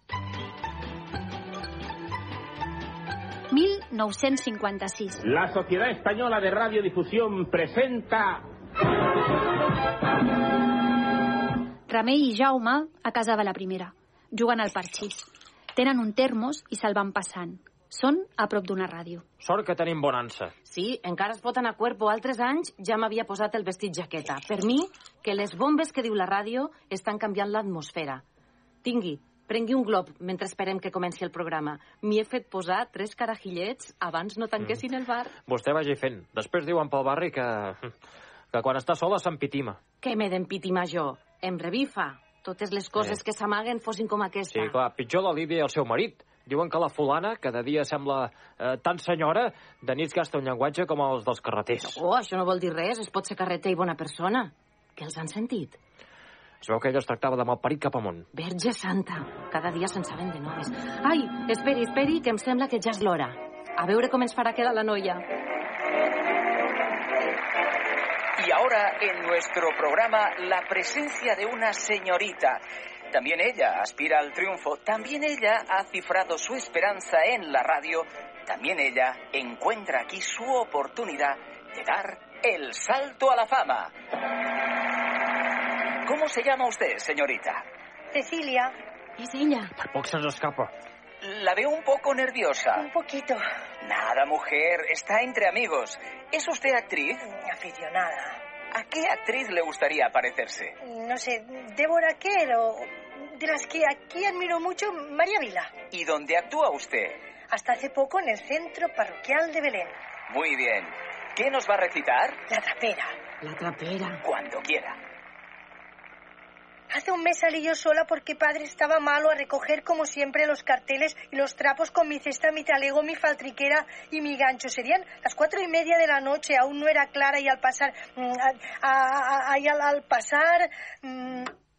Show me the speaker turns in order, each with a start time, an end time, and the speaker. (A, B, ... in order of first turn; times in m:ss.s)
0:03.5-0:05.2 A
0:05.2-0:08.4 B
0:11.9-0:19.2 A
0:19.4-0:20.5 C
0:20.6-0:28.2 D
0:28.8-0:35.3 D
0:35.5-0:37.9 C
0:38.5-0:39.8 C
0:40.0-0:44.8 D
0:44.5-0:52.0 C
0:51.8-0:55.8 D
0:56.6-0:58.3 C
0:58.3-1:05.2 D
1:08.4-1:23.9 E
1:26.0-1:27.6 E
1:28.1-1:28.7 F
1:29.2-1:29.7 D
1:29.8-1:30.7 C
1:31.2-1:32.9 E
1:32.7-1:33.4 F
1:33.8-1:37.2 E
1:37.3-1:38.4 F
1:38.7-1:40.8 E
1:40.8-1:45.7 F
1:45.9-1:47.2 E
1:47.5-1:50.0 F
1:50.3-1:52.4 E
1:52.5-1:53.1 F
1:53.4-1:54.2 D
1:54.2-1:55.0 E
1:56.9-2:11.5 F